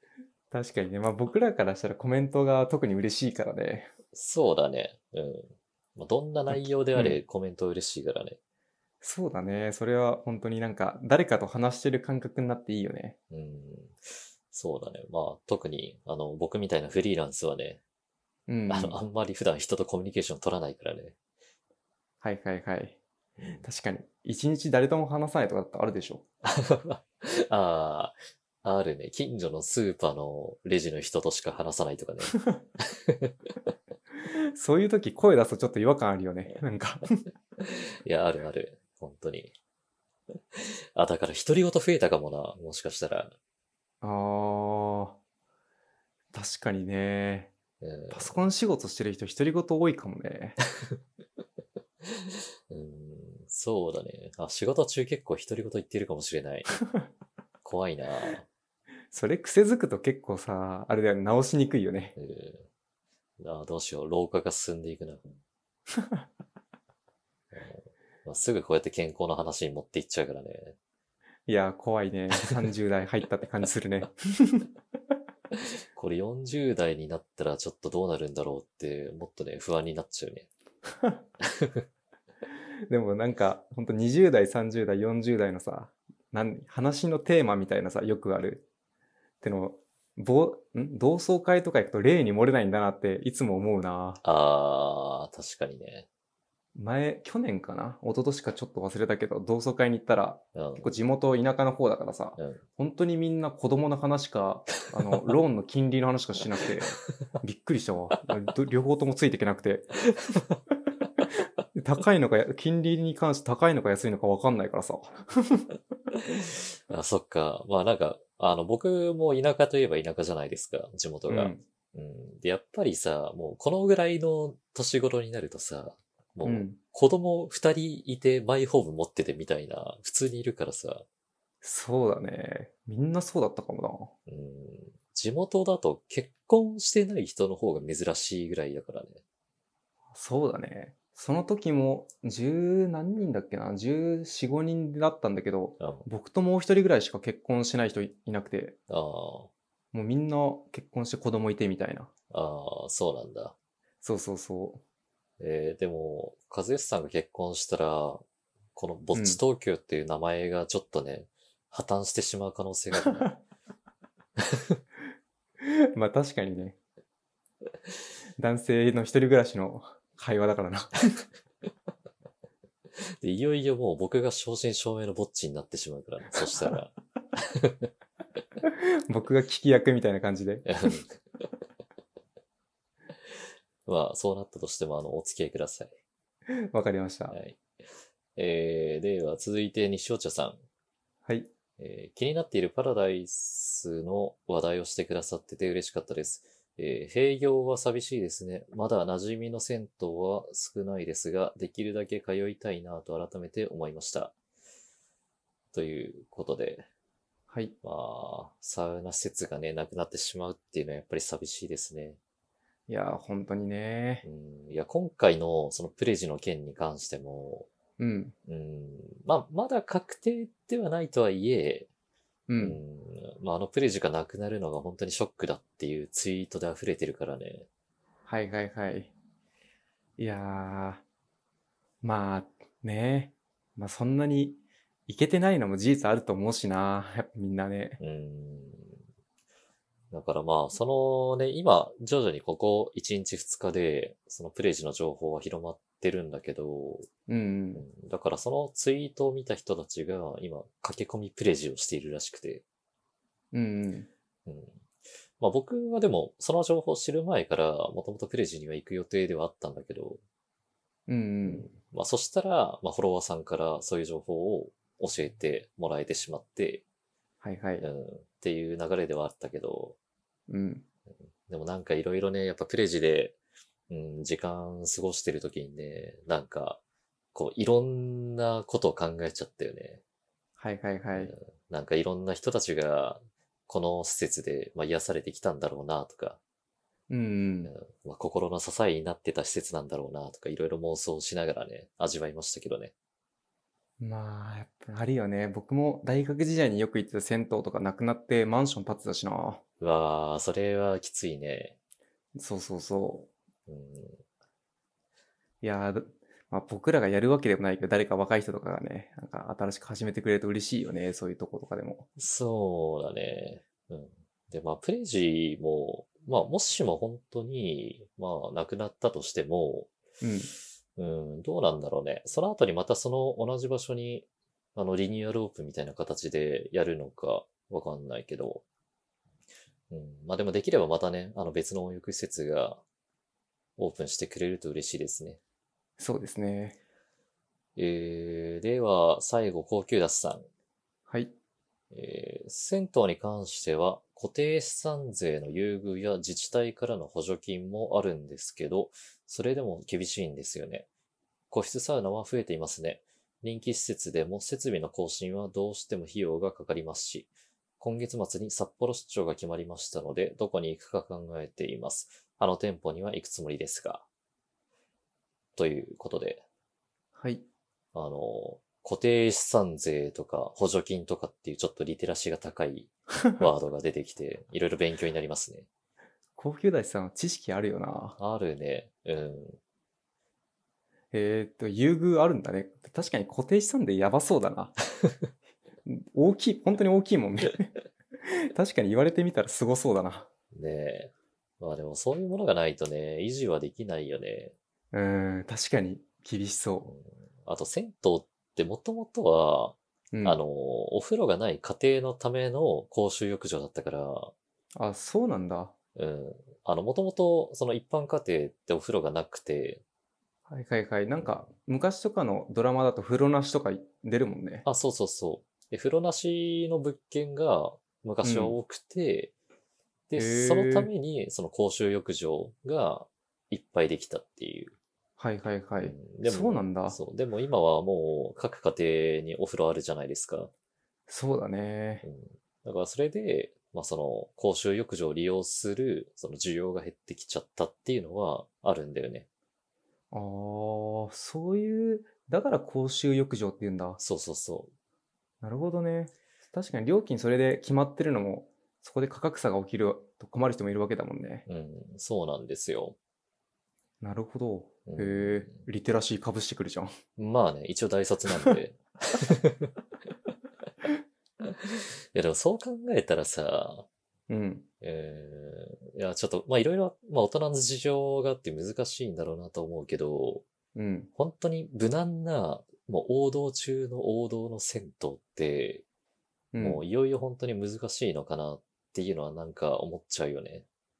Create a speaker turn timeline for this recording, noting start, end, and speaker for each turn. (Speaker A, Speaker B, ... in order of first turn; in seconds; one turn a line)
Speaker A: 0.5-3.9
Speaker B: 4.1-8.4
Speaker A: 6.5-7.2
Speaker A: 9.0-13.2
Speaker B: 13.3-17.8
Speaker A: 18.5-19.0
Speaker B: 18.7-21.1
Speaker A: 22.2-23.0
Speaker A: 23.6-26.2
Speaker B: 26.4-33.3
Speaker A: 34.2-37.1
Speaker B: 37.7-39.5
Speaker B: 40.5-43.3
Speaker A: 44.0-45.2
Speaker A: 46.3-47.5
Speaker B: 47.8-48.5
Speaker A: 48.1-50.6
Speaker B: 52.0-56.7
Speaker B: 57.6-58.4
Speaker A: 59.1-62.1
Speaker B: 62.2-62.7
Speaker B: 63.4-65.3
Speaker A: 65.9-66.2
Speaker B: 67.5-70.8
Speaker A: 71.5-74.7
Speaker B: 75.9-80.5
Speaker B: 81.6-81.8
Speaker A: 82.9-88.6
Speaker A: 89.4-94.2
Speaker B: 94.2-96.1
Speaker A: 96.8-109.9
Speaker B: 100.5-101.0
Speaker B: 102.4-102.6
Speaker A: 111.7-115.7
Speaker B: 116.3-131.0
Speaker A: 121.3-121.6
Speaker A: 126.4-126.8
Speaker A: 131.6-134.1
Speaker B: 134.3-139.2
Speaker A: 140.1-148.8
Speaker B: 145.8-146.1
Speaker B: 148.9-149.5
Speaker A: 149.9-152.1
Speaker B: 152.3-153.5
Speaker A: 154.0-154.8
Speaker B: 155.4-158.2
Speaker B: 158.7-163.3
Speaker A: 159.1-159.4
Speaker B: 164.4-164.8
Speaker A: 165.6-166.8
Speaker A: 168.4-171.1
Speaker B: 173.2-177.9
Speaker A: 178.6-180.9
Speaker B: 180.7-181.2
Speaker B: 183.8-185.9
Speaker A: 186.5-187.4
Speaker B: 187.3-187.6
Speaker B: 188.3-190.6
Speaker B: 191.8-204.3
Speaker B: 205.7-206.9
Speaker A: 207.5-207.7
Speaker B: 207.8-212.2
Speaker A: 212.9-214.2
Speaker B: 214.2-217.7
Speaker A: 218.0-218.3
Speaker B: 218.5-221.9
Speaker A: 222.5-222.8
Speaker B: 222.6-227.7
Speaker A: 228.3-229.1
Speaker A: 230.2-231.0
Speaker A: 232.0-238.0
Speaker B: 238.0-238.9
Speaker B: 240.1-247.1
Speaker A: 247.3-247.8
Speaker B: 247.7-252.6
Speaker A: 253.5-254.1
Speaker B: 254.4-254.8
Speaker B: 255.4-260.2
Speaker A: 261.1-261.7
Speaker B: 261.4-266.8
Speaker A: 267.4-267.9
Speaker B: 267.8-269.9
Speaker A: 270.5-270.8
Speaker B: 271.5-273.4
Speaker B: 273.9-276.8
Speaker B: 277.3-280.0
Speaker A: 280.6-281.3
Speaker B: 281.1-286.4
Speaker A: 287.1-287.7
Speaker B: 287.6-292.9
Speaker A: 294.0-299.6
Speaker B: 299.8-301.8
Speaker A: 302.4-303.3
Speaker B: 303.7-304.2
Speaker A: 305.6-312.1
Speaker B: 312.2-319.9
Speaker A: 320.2-320.5
Speaker B: 320.9-328.6
Speaker B: 329.9-332.8
Speaker B: 333.8-335.4
Speaker A: 336.0-336.8
Speaker B: 337.8-340.5
Speaker A: 341.1-341.3
Speaker B: 341.9-350.9
Speaker B: 351.5-364.1
Speaker B: 365.6-366.4
Speaker A: 367.1-367.4
Speaker B: 367.9-375.7
Speaker A: 376.4-378.2
Speaker B: 378.2-379.6
Speaker A: 381.1-384.7
Speaker A: 385.9-390.3
Speaker B: 390.5-394.5
Speaker A: 394.9-396.9
Speaker B: 396.9-404.3
Speaker A: 400.1-400.4
Speaker A: 404.8-405.7
Speaker B: 405.9-409.8
Speaker A: 410.5-414.6
Speaker B: 414.6-419.3
Speaker A: 418.2-418.5
Speaker B: 420.1-424.7
Speaker A: 420.1-420.9
Speaker A: 425.2-427.0
Speaker B: 425.8-430.5
Speaker A: 431.1-432.0
Speaker B: 432.0-439.3
Speaker A: 440.1-444.0
Speaker B: 444.0-444.7
Speaker A: 445.4-451.4
Speaker B: 451.5-452.9
Speaker A: 454.0-456.9
Speaker B: 454.9-455.6
Speaker B: 457.2-459.7
Speaker B: 461.4-463.9
Speaker A: 464.3-464.7
Speaker B: 464.8-470.4
Speaker A: 470.7-471.1
Speaker B: 471.1-475.8
Speaker A: 476.5-476.8
Speaker B: 476.6-480.6